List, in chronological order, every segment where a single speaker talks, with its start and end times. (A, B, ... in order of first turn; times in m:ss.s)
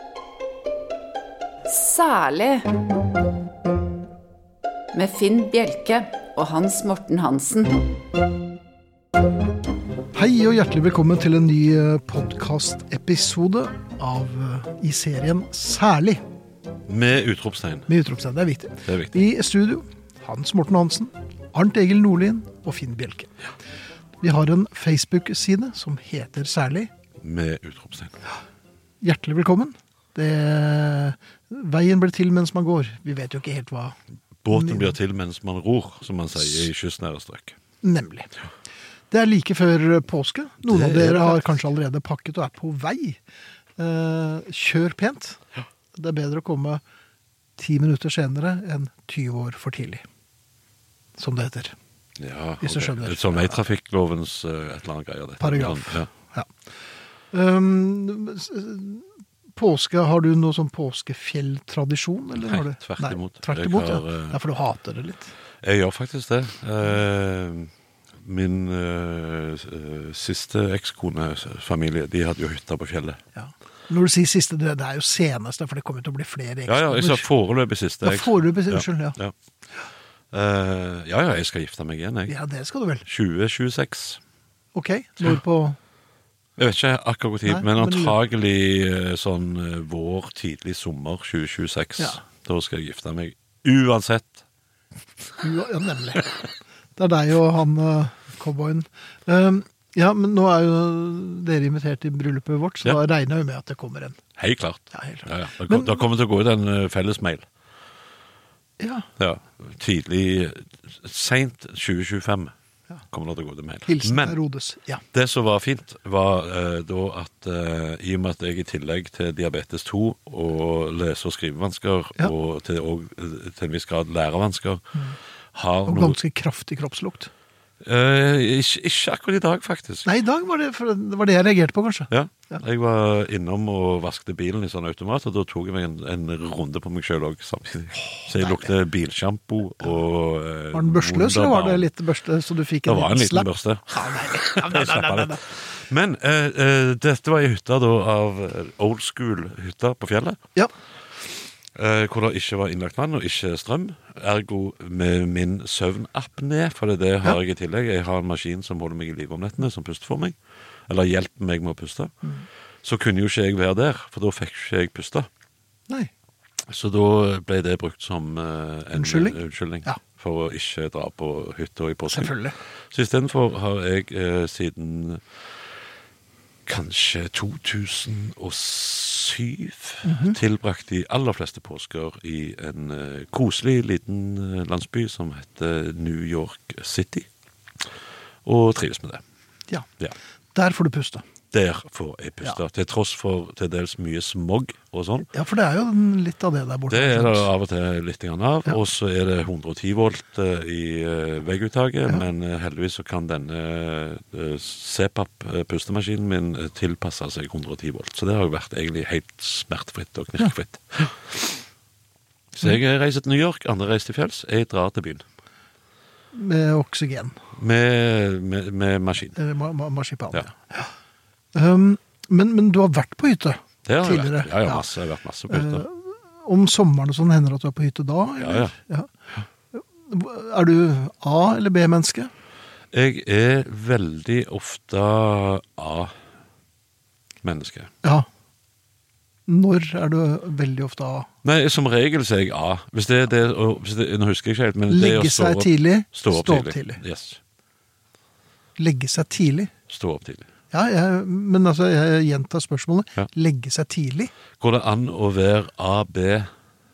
0:01.7-0:02.7 A
0:04.9-0:07.9 A
0:10.1-0:16.2 B
0:16.9-0:17.9 C
0:17.9-0:23.3 B
0:18.8-0:19.2 C
0:24.2-0:26.9 B
0:27.2-0:28.2 C
0:29.0-0:34.0 B
0:34.4-0:37.6 C
0:34.5-0:35.0 B
0:37.8-0:38.3 B
0:39.1-0:43.2 B
0:40.7-0:41.5 C
0:43.8-0:45.4 B
0:45.9-0:46.8 B
0:47.6-0:50.0 B
0:51.2-0:51.8 B
0:52.2-0:56.1 C
0:52.6-0:53.6 B
0:55.4-0:56.5 B
0:57.3-1:05.3 B
1:02.4-1:04.4 C
1:05.6-1:13.2 C
1:13.4-1:17.3 B
1:16.7-1:19.3 C
1:18.0-1:19.2 B
1:20.3-1:22.4 C
1:22.3-1:23.1 B
1:23.1-1:24.2 C
1:24.8-1:25.8 B
1:26.6-1:34.4 C
1:27.5-1:28.2 B
1:35.4-1:36.3 B
1:37.0-1:44.2 B
1:44.4-1:47.5 C
1:44.9-1:46.0 B
1:48.8-1:49.1 B
1:49.2-1:52.5 C
1:53.1-1:54.4 C
1:53.9-1:55.0 B
1:55.1-2:04.9 C
2:05.5-2:06.2 C
2:05.9-2:07.3 B
2:07.8-2:10.1 C
2:10.0-2:12.6 B
2:12.1-2:21.9 C
2:18.0-2:18.7 B
2:20.7-2:25.4 B
2:22.8-2:30.4 C
2:31.7-2:40.4 C
2:40.9-2:42.1 C
2:42.8-2:45.3 C
2:46.7-2:52.3 C
2:48.9-2:50.0 B
2:52.1-2:52.6 B
2:52.9-2:55.2 C
2:56.7-3:07.3 C
3:00.0-3:00.4 B
3:08.4-3:09.2 C
3:10.6-3:11.2 B
3:11.5-3:15.3 C
3:15.3-3:17.5 B
3:16.9-3:31.6 C
3:32.5-3:35.2 C
3:36.3-3:37.4 B
3:37.6-3:39.4 C
3:39.4-3:40.9 B
3:41.5-3:44.9 B
3:43.9-3:45.8 C
3:45.5-3:49.1 B
3:48.4-3:48.7 C
3:49.7-3:52.3 B
3:52.9-3:56.1 C
3:57.4-3:57.9 C
3:59.5-4:01.3 B
4:01.4-4:07.4 C
4:04.9-4:07.0 B
4:08.8-4:09.7 B
4:09.9-4:10.5 C
4:10.7-4:14.3 B
4:14.6-4:16.5 C